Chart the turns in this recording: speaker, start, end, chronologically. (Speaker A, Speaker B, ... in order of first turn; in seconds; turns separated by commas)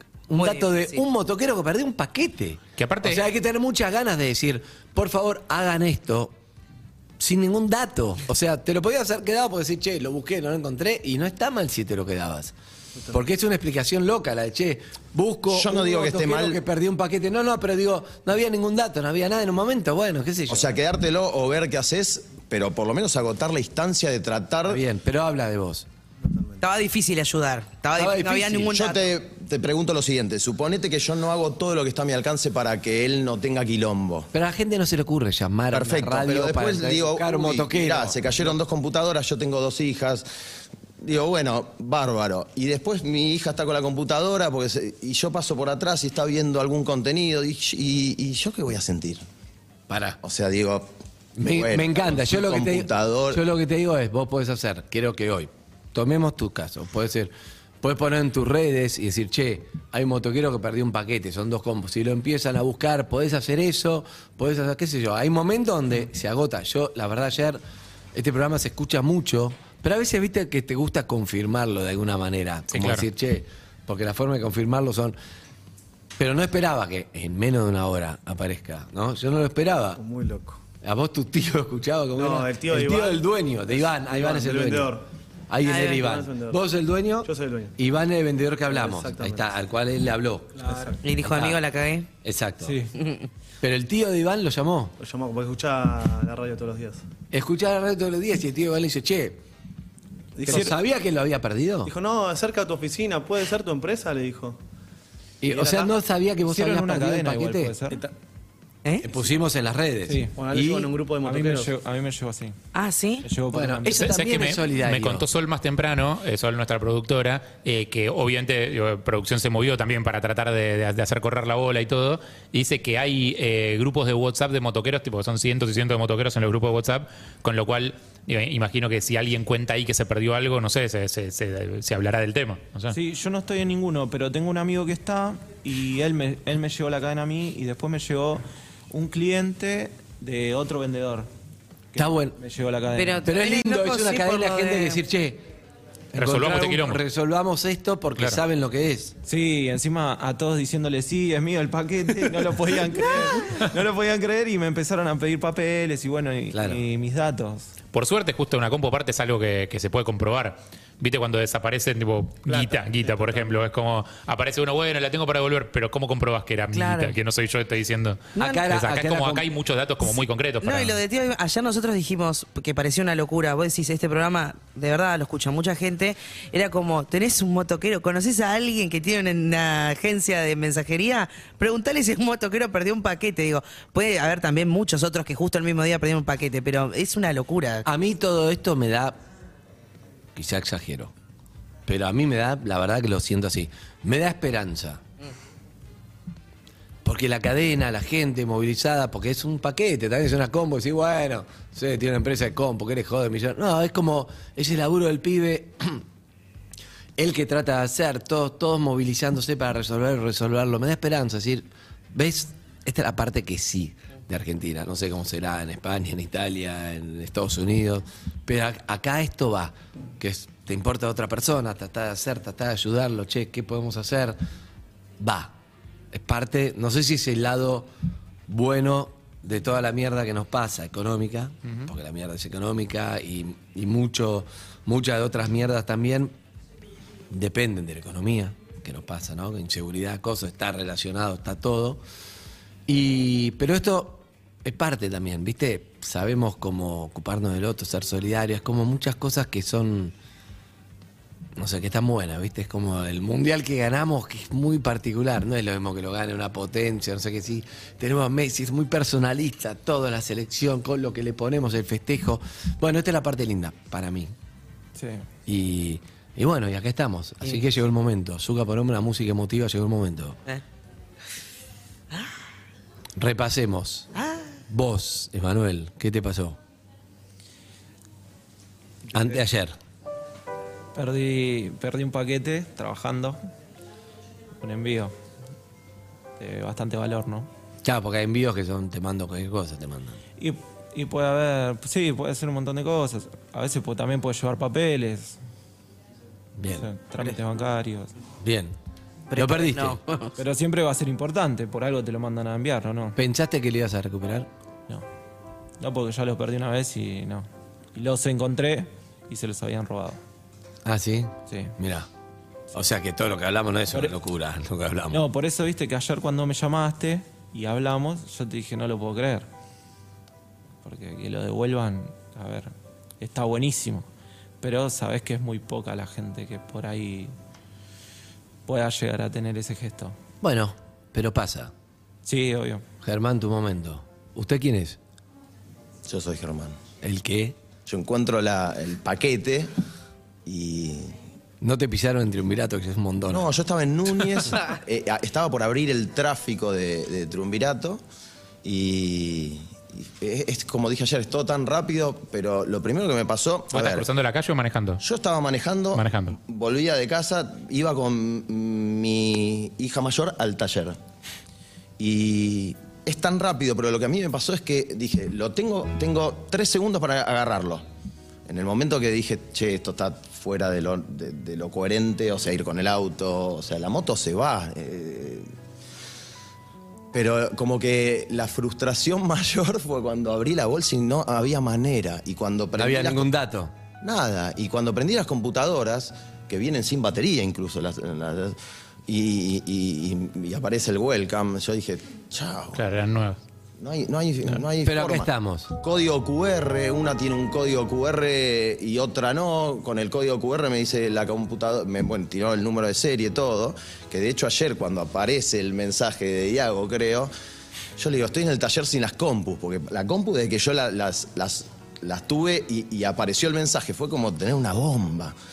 Speaker A: 0.3-6.3, Speaker B: 0.3-1.0, Speaker C: 2.8-3.2, Speaker A: 7.2-12.6, Speaker A: 13.1-20.8, Speaker D: 15.5-16.6, Speaker D: 20.5-24.8, Speaker A: 24.7-25.9, Speaker E: 26.2-26.6, Speaker B: 26.6-29.0, Speaker A: 27.9-28.8, Speaker D: 28.7-34.3, Speaker A: 34.3-38.6, Speaker D: 35.7-40.3, Speaker D: 41.0-49.2, Speaker A: 49.9-50.2, Speaker D: 50.2-53.4, Speaker A: 51.4-67.6, Speaker A: 68.1-75.2, Speaker C: 72.7-73.1, Speaker A: 76.2-80.0, Speaker E: 80.0-80.6, Speaker A: 80.8-85.0, Speaker E: 82.2-85.0, Speaker A: 85.5-90.6, Speaker B: 85.6-86.0, Speaker E: 86.0-86.6, Speaker E: 87.2-87.8, Speaker E: 88.7-89.5, Speaker E: 90.5-91.0, Speaker B: 91.0-92.1, Speaker A: 91.2-91.6, Speaker A: 92.2-92.8, Speaker F: 92.6-92.9, Speaker B: 93.0-93.3, Speaker A: 93.6-94.9, Speaker E: 95.0-97.0, Speaker A: 97.3-99.4, Speaker E: 100.4-100.8, Speaker A: 100.5-101.9, Speaker F: 100.5-100.8, Speaker E: 101.8-104.6, Speaker A: 105.4-107.8, Speaker E: 105.5-105.9, Speaker F: 106.5-108.0, Speaker A: 109.0-110.9, Speaker F: 110.1-110.4, Speaker E: 110.4-111.7, Speaker F: 111.2-112.6, Speaker B: 112.7-113.3, Speaker F: 113.2-114.2, Speaker A: 113.5-115.3, Speaker C: 113.9-133.0, Speaker F: 132.9-141.3, Speaker F: 141.9-143.3, Speaker A: 142.0-142.4, Speaker B: 142.9-145.0, Speaker A: 143.2-145.4, Speaker A: 146.1-149.2, Speaker C: 146.2-147.0, Speaker F: 149.2-157.7, Speaker A: 156.5-156.8, Speaker C: 157.9-171.0, Speaker F: 162.5-162.7, Speaker B: 166.7-167.2, Speaker A: 168.4-169.5, Speaker B: 170.1-187.8, Speaker A: 187.8-189.2, Speaker A: 190.3-191.1, Speaker A: 191.9-195.0, Speaker A: 197.0-206.0, Speaker A: 207.2-224.4, Speaker A: 225.2-225.5, Speaker A: 226.1-227.9, Speaker A: 228.5-236.3, Speaker A: 237.3-242.0, Speaker A: 242.9-250.1, Speaker A: 251.6-264.3, Speaker F: 265.0-265.3, Speaker A: 265.5-270.4, Speaker A: 273.2-274.1, Speaker B: 274.2-274.4, Speaker A: 274.7-276.6, Speaker A: 279.1-279.8, Speaker F: 280.9-283.4, Speaker F: 284.6-285.1, Speaker F: 286.4-287.5, Speaker A: 287.8-290.2, Speaker F: 290.4-295.4, Speaker A: 296.6-296.9, Speaker F: 296.8-298.1, Speaker A: 298.4-298.8, Speaker B: 299.3-300.3, Speaker A: 299.3-300.0, Speaker F: 300.4-303.2, Speaker A: 303.2-304.5, Speaker F: 305.8-310.2, Speaker A: 310.9-312.1, Speaker F: 311.5-311.8, Speaker A: 312.7-315.2, Speaker F: 315.1-319.5, Speaker F: 320.8-324.1, Speaker F: 324.6-327.3, Speaker F: 328.7-330.2, Speaker A: 330.4-331.7, Speaker F: 332.3-332.8, Speaker A: 333.0-335.0, Speaker D: 336.1-336.8, Speaker A: 337.0-337.6, Speaker D: 337.9-339.7, Speaker D: 340.5-341.2, Speaker A: 341.6-343.6, Speaker D: 343.3-348.0, Speaker D: 348.6-354.1, Speaker C: 353.7-355.0, Speaker D: 355.0-361.0, Speaker C: 355.9-356.4, Speaker D: 362.0-367.8, Speaker D: 368.5-375.5, Speaker D: 377.1-383.3, Speaker A: 382.8-383.7, Speaker D: 384.0-388.6, Speaker D: 389.1-392.8, Speaker C: 392.7-393.4, Speaker D: 393.8-407.3, Speaker A: 394.8-395.7, Speaker D: 408.0-415.3